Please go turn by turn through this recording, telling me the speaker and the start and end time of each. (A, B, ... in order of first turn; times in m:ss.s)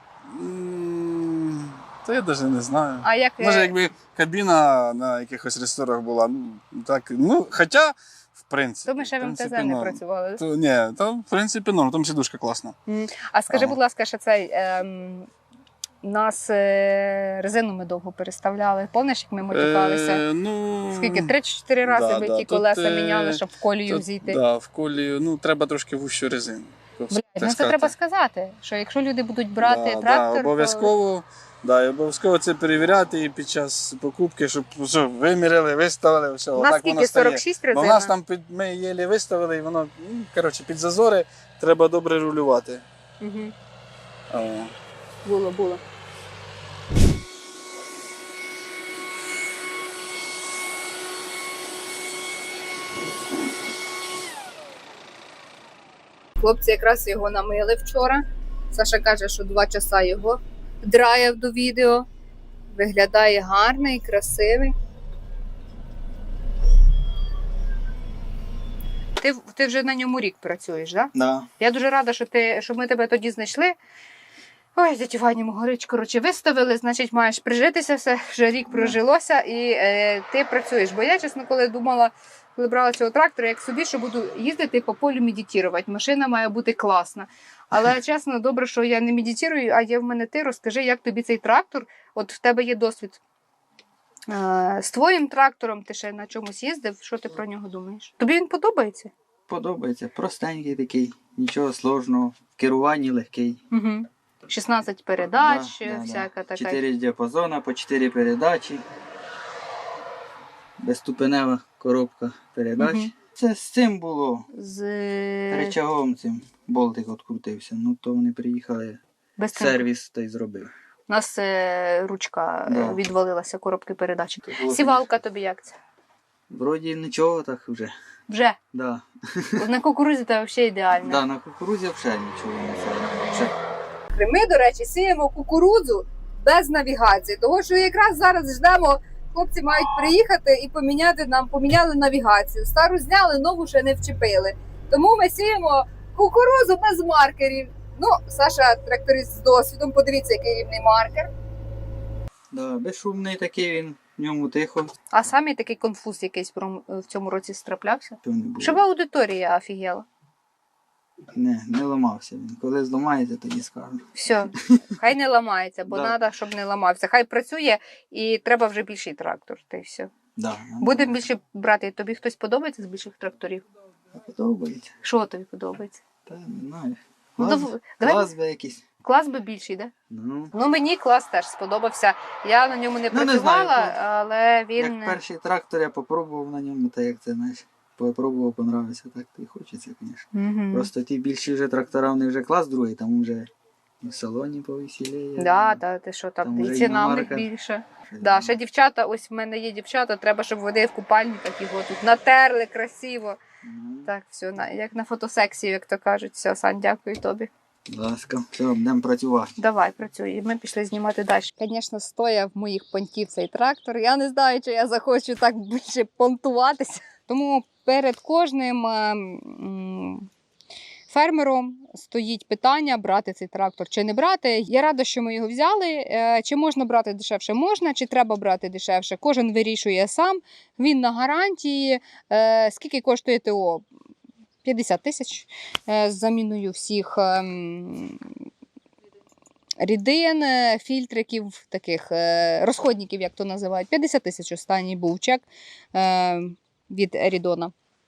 0:00.3-0:12.8 A
0:03.0-0:03.7 B
0:08.9-0:10.4 B
0:12.9-0:15.3 B
0:13.5-0:13.8 A
0:16.0-0:20.2 B
0:19.5-0:21.3 A
0:20.9-0:24.4 B
0:21.8-0:27.9 A
0:27.1-0:30.9 B
0:29.6-0:42.8 A
0:36.6-0:38.1 B
0:43.2-0:43.5 B
0:44.3-0:44.7 A
0:45.2-0:45.8 B
0:56.4-1:02.1 B
1:02.7-1:04.7 B
1:09.2-1:13.8 B
1:11.2-1:11.5 C
1:14.8-1:33.2 B
1:18.7-1:19.0 C
1:34.3-1:39.1 B
1:39.5-1:43.6 C
1:43.7-1:46.8 B
1:45.4-1:48.8 C
1:50.8-1:54.5 C
1:52.8-1:53.1 B
1:54.5-1:55.8 B
1:55.5-1:59.0 C
1:59.4-1:59.8 B
1:59.6-2:00.7 C
2:01.1-2:05.8 B
2:02.7-2:03.0 C
2:04.4-2:05.2 C
2:06.5-2:07.9 C
2:08.3-2:08.6 B
2:08.7-2:09.7 C
2:09.6-2:11.2 B
2:11.0-2:13.5 C
2:14.1-2:31.3 B
2:32.5-2:34.9 C
2:35.1-2:40.1 B
2:38.2-2:38.8 C
2:41.3-2:44.0 C
2:44.1-2:50.1 B
2:45.9-2:46.2 C
2:50.4-2:51.2 C
2:50.8-2:53.6 B
2:54.1-2:54.9 C
2:55.0-2:56.0 B
2:56.2-2:58.8 C
2:57.4-2:58.3 B
2:59.0-2:59.9 B
3:00.1-3:00.5 C
3:00.5-3:05.2 B
3:03.1-3:04.0 C
3:04.8-3:13.5 C
3:10.3-3:10.9 B
3:14.0-3:15.8 C
3:15.4-3:23.4 B
3:16.4-3:17.5 C
3:18.1-3:18.6 C
3:23.6-3:24.1 C
3:24.0-3:27.5 B
3:27.9-3:29.5 C
3:29.6-3:40.3 B
3:41.1-3:53.9 B
3:54.6-3:58.3 B
3:59.8-4:07.7 B